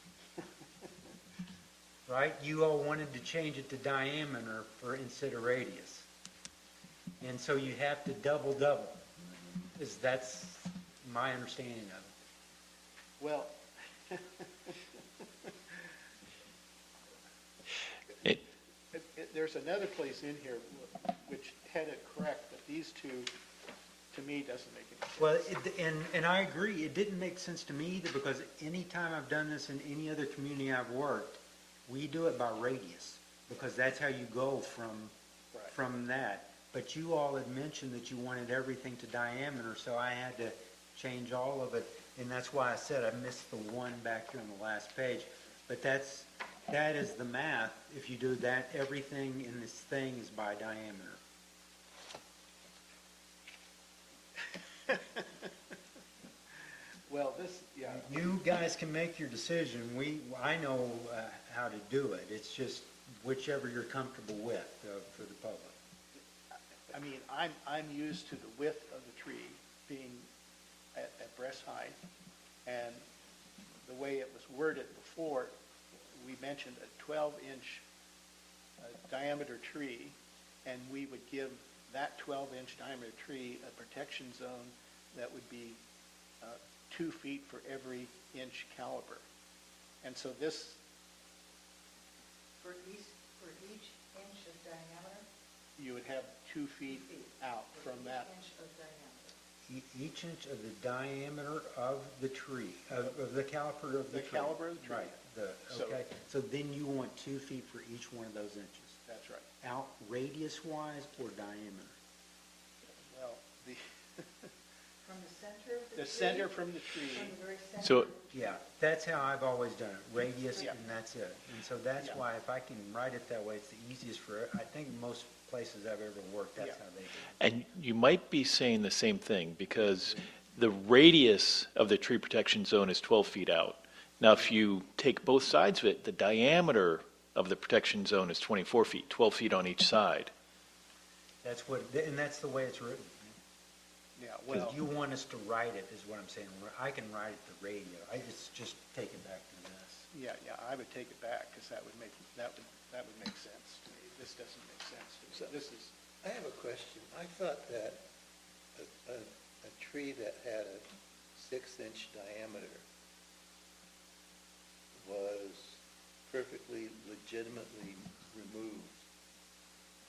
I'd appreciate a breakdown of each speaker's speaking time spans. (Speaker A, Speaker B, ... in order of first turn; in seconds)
Speaker A: 2.1-6.1, 7.2-9.0, 9.8-12.1, 25.2-35.1, 35.6-51.2, 57.9-65.8, 99.7-109.0, 109.6-112.0, 118.3-127.3, 141.4-143.4, 144.5-150.1
Speaker B: 13.2-15.8, 18.9-23.3, 24.1-25.5, 54.9-55.5, 57.1-58.3, 66.9-70.3, 71.0-72.0, 72.7-73.1, 73.8-77.8, 78.8-85.8, 86.4-89.2, 90.0-90.8, 95.8-98.3, 104.1-105.2, 105.7-106.1, 109.1-109.5, 112.9-114.5, 115.9-117.4, 144.2-144.8, 150.1-155.9
Speaker C: 92.6-95.3, 96.9-99.3, 115.0-118.3
Speaker D: 117.8-118.1, 127.4-140.3
Speaker E: 156.2-158.1, 158.8-162.8, 165.0-169.0